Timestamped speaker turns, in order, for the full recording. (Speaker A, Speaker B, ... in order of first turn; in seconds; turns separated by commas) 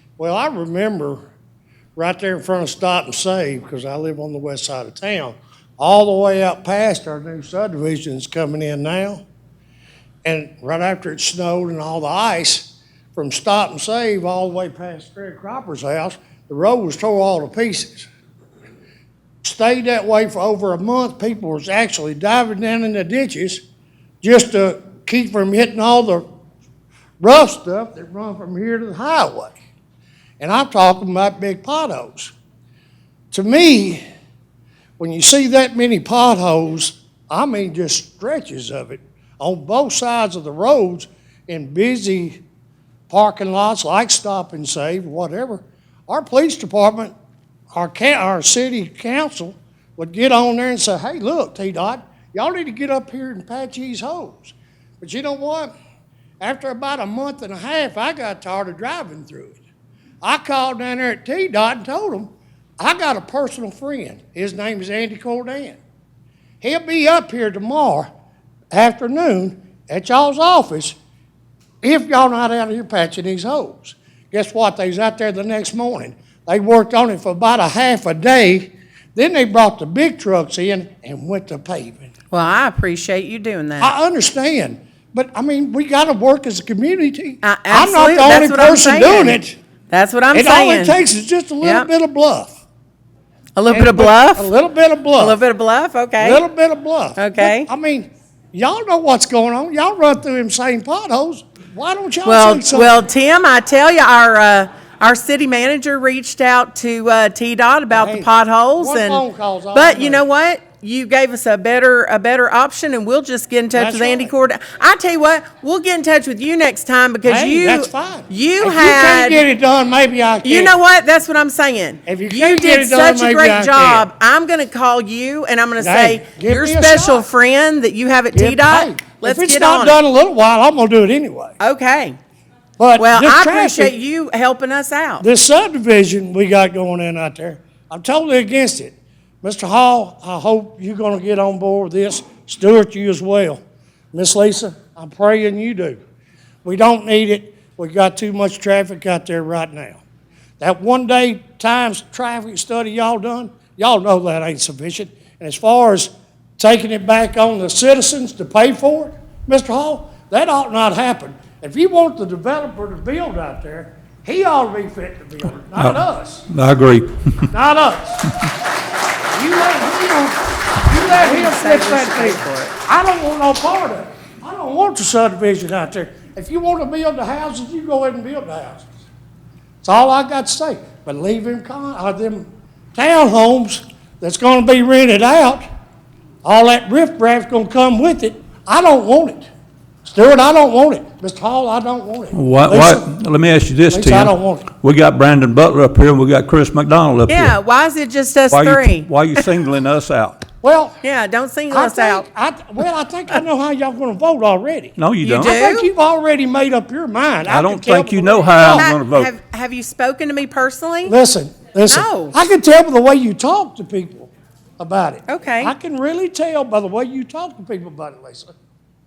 Speaker A: 0.2-1.2, Speaker A: 1.9-9.2, Speaker A: 10.2-18.1, Speaker A: 19.4-23.6, Speaker A: 24.2-26.2, Speaker A: 27.2-29.6, Speaker A: 30.4-32.3, Speaker A: 33.3-34.0, Speaker A: 35.0-42.4, Speaker A: 43.1-47.1, Speaker A: 47.7-55.7, Speaker A: 56.4-59.6, Speaker A: 60.2-65.8, Speaker A: 66.6-68.1, Speaker A: 68.7-71.0, Speaker A: 71.8-82.1, Speaker B: 82.3-83.9, Speaker A: 83.8-89.5, Speaker B: 87.4-89.4, Speaker B: 89.9-91.0, Speaker A: 90.3-92.5, Speaker B: 91.6-91.9, Speaker B: 93.5-94.5, Speaker A: 93.7-95.4, Speaker B: 95.2-96.4, Speaker A: 96.2-103.0, Speaker B: 97.2-97.7, Speaker B: 102.2-109.2, Speaker A: 107.9-110.2, Speaker B: 109.7-119.4, Speaker A: 113.7-114.3, Speaker A: 117.2-120.7, Speaker B: 120.4-130.0, Speaker A: 122.0-124.0, Speaker A: 125.8-127.3, Speaker A: 128.3-131.6, Speaker B: 131.6-132.2, Speaker A: 132.8-133.9, Speaker B: 133.0-135.2, Speaker A: 135.2-143.6, Speaker A: 144.1-146.0, Speaker A: 146.7-150.0, Speaker A: 150.6-166.5, Speaker C: 166.5-167.1, Speaker A: 167.5-168.3, Speaker A: 169.3-178.9, Speaker B: 171.0-172.8, Speaker A: 179.8-185.6, Speaker A: 186.4-189.5, Speaker A: 190.1-193.1, Speaker C: 192.3-197.6, Speaker A: 193.9-194.7, Speaker B: 197.3-199.4, Speaker C: 198.5-200.4, Speaker A: 200.6-201.0, Speaker B: 201.0-202.3, Speaker A: 201.7-208.9, Speaker C: 205.0-205.6, Speaker B: 205.2-205.9, Speaker C: 207.5-209.3, Speaker B: 208.6-211.1, Speaker A: 211.1-218.5, Speaker B: 211.9-212.3, Speaker B: 215.3-215.7